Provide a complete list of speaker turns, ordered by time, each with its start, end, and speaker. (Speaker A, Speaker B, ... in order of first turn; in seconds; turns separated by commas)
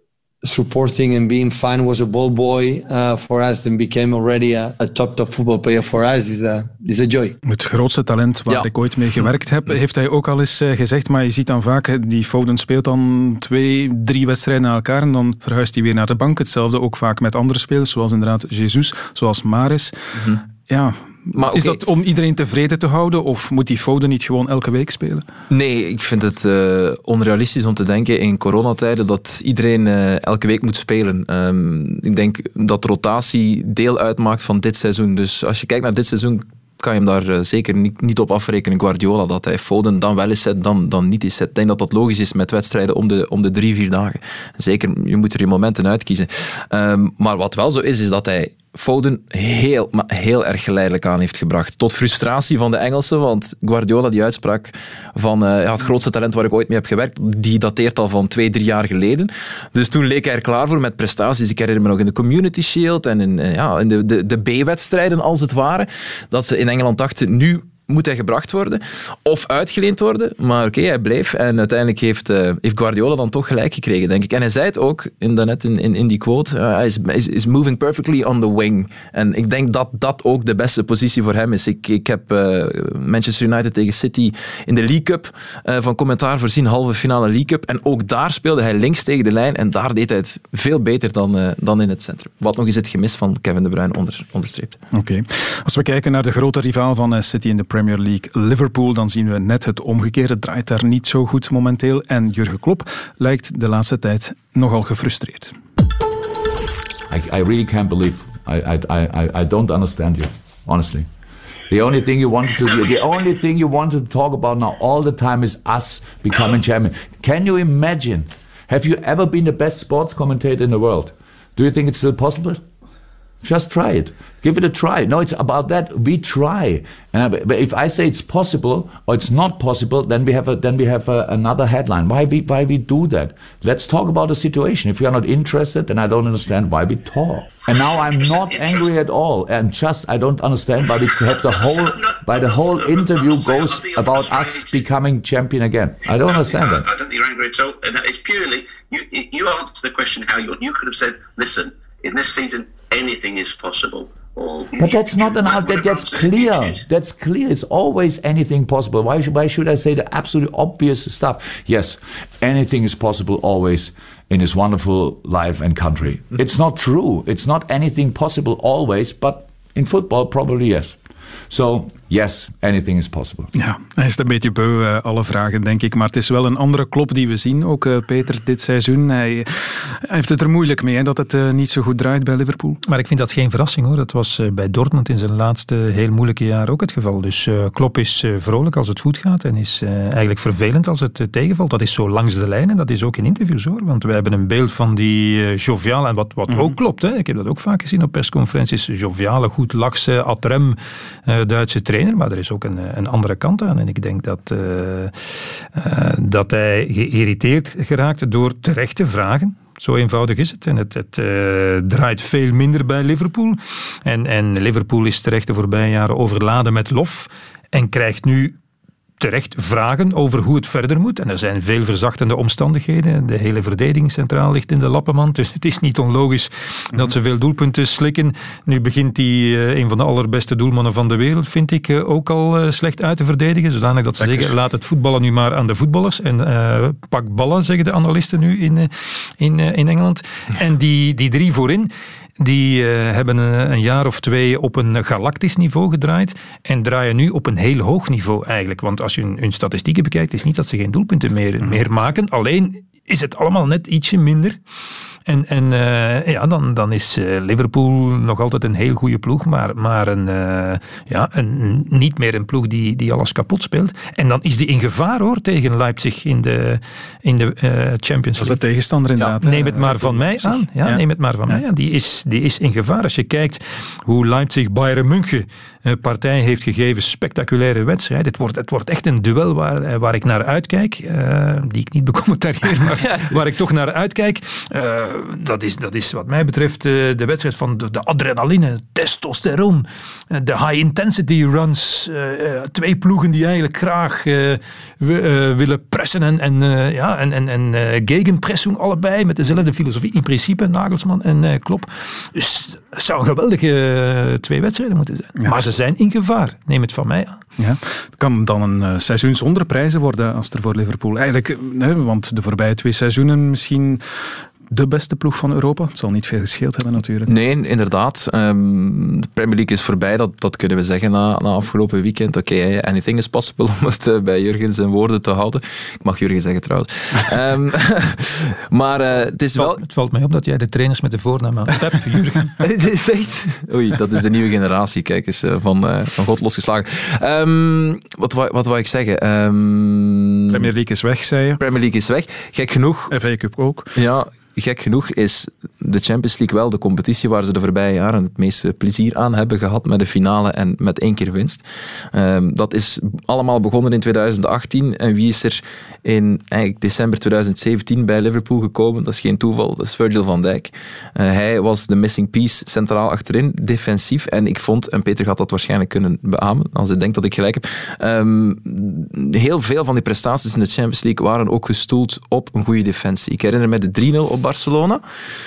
Speaker A: 0.4-7.4, Speaker B: 7.4-19.9, Speaker C: 8.5-9.2, Speaker C: 20.2-20.4, Speaker B: 20.7-25.3, Speaker C: 21.3-21.8, Speaker C: 25.5-94.8, Speaker B: 94.9-105.5, Speaker D: 107.1-111.1, Speaker D: 111.7-122.6, Speaker D: 123.4-146.9, Speaker E: 137.8-138.9, Speaker E: 141.2-144.8, Speaker E: 146.2-156.8, Speaker D: 154.8-171.0, Speaker D: 171.5-173.5, Speaker B: 173.5-182.8, Speaker F: 182.8-205.1, Speaker B: 196.5-196.7, Speaker F: 205.7-218.6, Speaker F: 219.2-254.6, Speaker B: 234.2-234.5, Speaker F: 255.2-268.6, Speaker B: 268.4-271.6, Speaker F: 269.4-307.4, Speaker B: 307.6-317.3, Speaker C: 317.2-329.8, Speaker F: 329.5-332.6, Speaker C: 332.6-340.7, Speaker B: 340.5-341.6, Speaker C: 341.6-343.1, Speaker B: 343.1-343.9, Speaker C: 343.9-375.0